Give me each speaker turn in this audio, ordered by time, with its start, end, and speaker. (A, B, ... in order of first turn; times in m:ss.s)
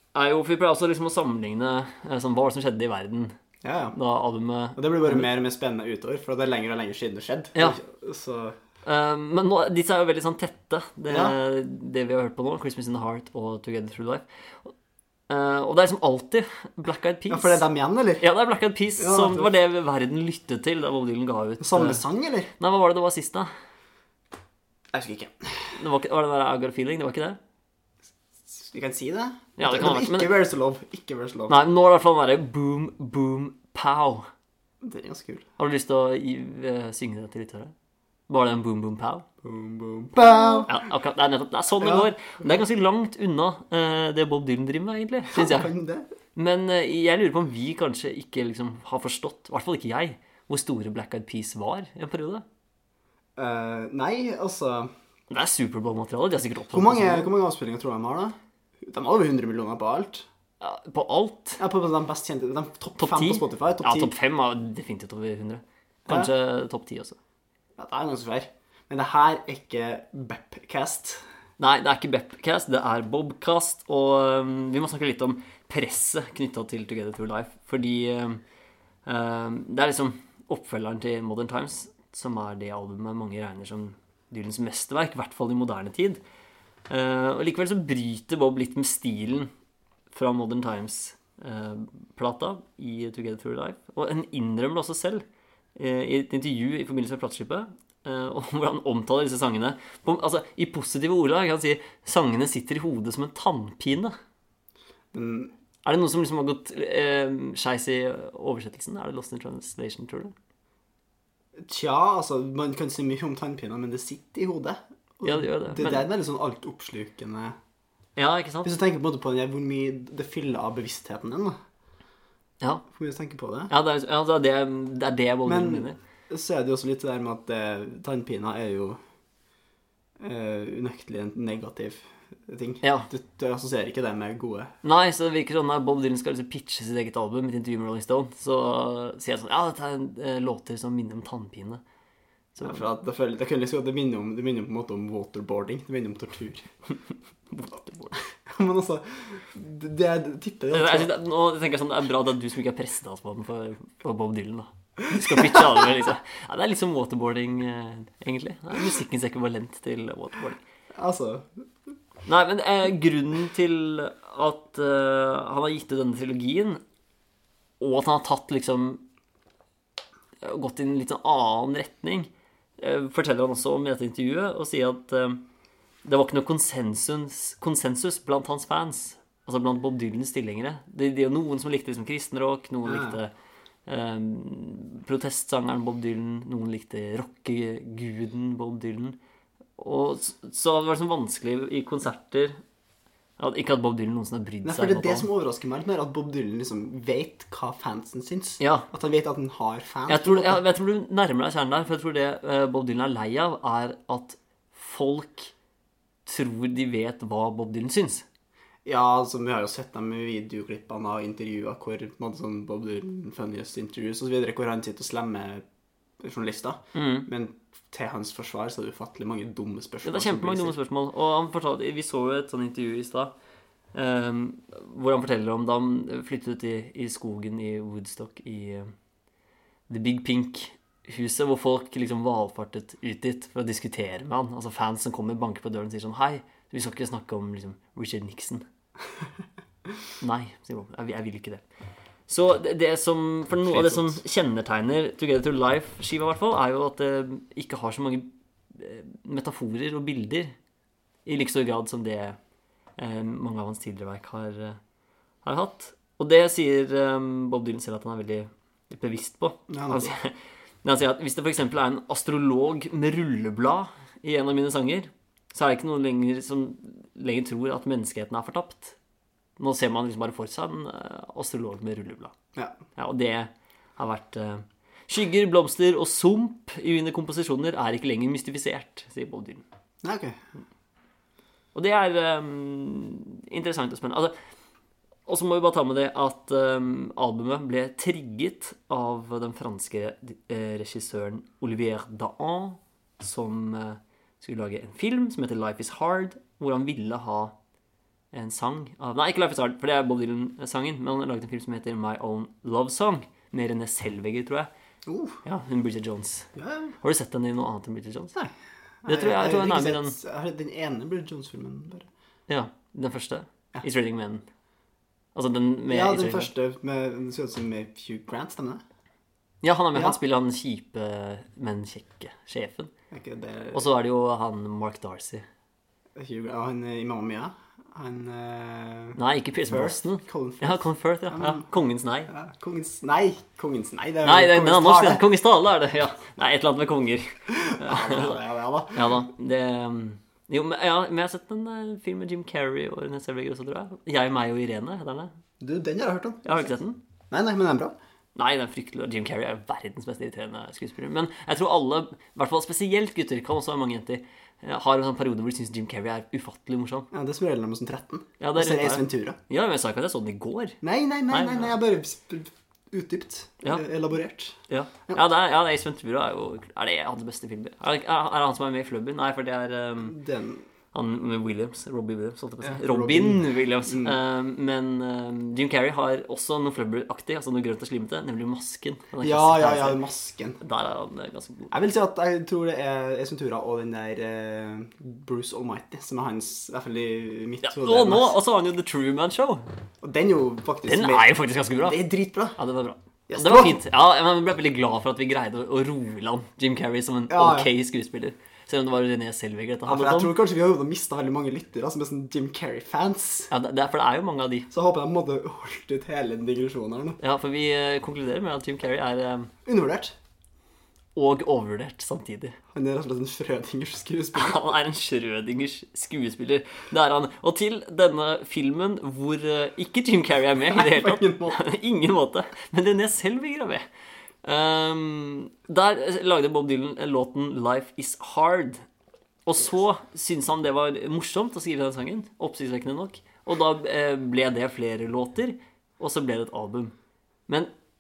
0:00.1-0:03.4 A
0:03.6-0:04.0 B
0:03.9-0:05.3 A
0:04.8-0:08.6 B
0:08.8-0:14.7 A
0:11.1-0:11.4 B
0:15.3-0:17.6 A
0:17.3-0:18.3 B
0:18.2-0:22.0 A
0:19.0-0:19.5 B
0:21.6-0:22.5 B
0:22.6-0:23.5 A
0:24.9-0:25.3 B
0:25.8-0:27.4 A
0:28.5-0:31.6 B
0:29.6-0:30.4 A
0:31.5-0:34.3 A
0:34.8-0:35.5 B
0:35.6-0:37.7 A
0:38.3-0:39.3 A
0:39.4-0:40.8 B
0:40.7-0:45.7 A
0:41.8-0:42.1 B
0:45.3-0:46.1 B
0:46.4-0:52.4 A
0:53.4-0:54.9 B
0:55.3-0:57.3 A
0:56.7-1:00.3 B
1:00.6-1:01.6 A
1:01.6-1:04.1 B
1:03.0-1:07.2 A
1:07.8-1:11.2 B
1:11.6-1:18.4 A
1:19.1-1:26.2 A
1:26.9-1:29.5 A
1:30.1-1:35.2 A
1:35.8-1:44.2 A
1:45.1-1:45.5 B
1:45.8-1:50.3 A
1:51.6-1:57.6 B
1:55.2-1:56.1 A
1:58.2-1:58.7 A
1:58.6-2:01.6 B
2:02.9-2:03.7 B
2:03.7-2:06.0 A
2:05.5-2:09.0 B
2:10.2-2:14.7 B
2:12.8-2:13.1 A
2:14.8-2:21.8 A
2:22.6-2:22.8 A
2:22.6-2:26.7 B
2:27.5-2:28.2 A
2:28.5-2:31.1 B
2:30.7-2:40.6 A
2:35.1-2:35.7 B
2:41.0-2:41.5 B
2:42.3-2:46.8 A
2:47.8-2:49.0 A
2:50.4-2:55.4 A
2:56.0-3:03.3 A
3:02.9-3:03.2 B
3:03.9-3:09.2 A
3:09.8-3:12.6 A
3:13.4-3:15.3 A
3:14.6-3:20.6 B
3:18.6-3:18.9 A
3:20.1-3:25.5 A
3:26.3-3:28.2 A
3:28.8-3:35.6 B
3:36.2-3:40.8 B
3:36.9-3:37.3 A
3:40.0-3:43.3 A
3:43.9-3:48.9 A
3:49.9-3:58.6 A
4:00.2-4:01.6 A
4:02.3-4:10.5 A
4:03.7-4:04.2 B
4:11.3-4:12.4 A
4:13.0-4:14.8 A
4:15.4-4:29.0 A
4:19.7-4:20.1 B
4:29.6-4:32.3 A
4:33.0-4:39.6 A
4:40.0-4:40.4 B
4:41.8-4:44.3 A
4:45.3-4:57.5 A
4:58.3-5:04.7 A
5:05.1-5:05.4 B
5:05.4-5:08.4 A
5:06.6-5:07.0 B
5:09.0-5:12.1 B
5:09.1-5:10.2 A
5:12.5-5:14.4 A
5:15.4-5:16.5 A
5:15.9-5:18.8 B
5:19.6-5:22.9 A
5:23.1-5:23.8 B
5:23.7-5:25.4 A
5:26.2-5:29.2 B
5:29.2-5:32.3 A
5:29.7-5:31.7 B
5:32.3-5:35.2 B
5:34.2-5:38.4 A
5:37.5-5:39.1 B
5:38.9-5:45.3 A
5:45.6-5:46.7 B
5:46.4-5:47.0 A
5:47.3-5:48.0 B
5:48.4-5:57.1 A
5:57.1-5:59.4 B
5:58.4-6:00.8 A
6:00.8-6:05.2 B
6:01.3-6:01.8 A
6:04.7-6:10.2 A
6:10.0-6:10.6 B
6:10.9-6:20.0 A
6:12.6-6:14.2 B
6:19.2-6:20.6 B
6:20.6-6:21.7 A
6:21.7-6:28.4 B
6:27.6-6:29.6 A
6:30.0-6:32.6 B
6:30.8-6:32.0 A
6:32.6-6:40.4 A
6:33.3-6:33.8 B
6:37.3-6:37.7 B
6:39.9-6:43.5 B
6:43.5-6:44.7 A
6:44.7-6:47.2 B
6:47.2-6:49.5 A
6:49.6-6:50.2 B
6:51.2-6:52.6 A
6:52.7-6:54.6 B
6:54.4-7:03.8 A
7:00.7-7:01.6 B
7:04.4-7:08.8 A
7:09.5-7:16.9 A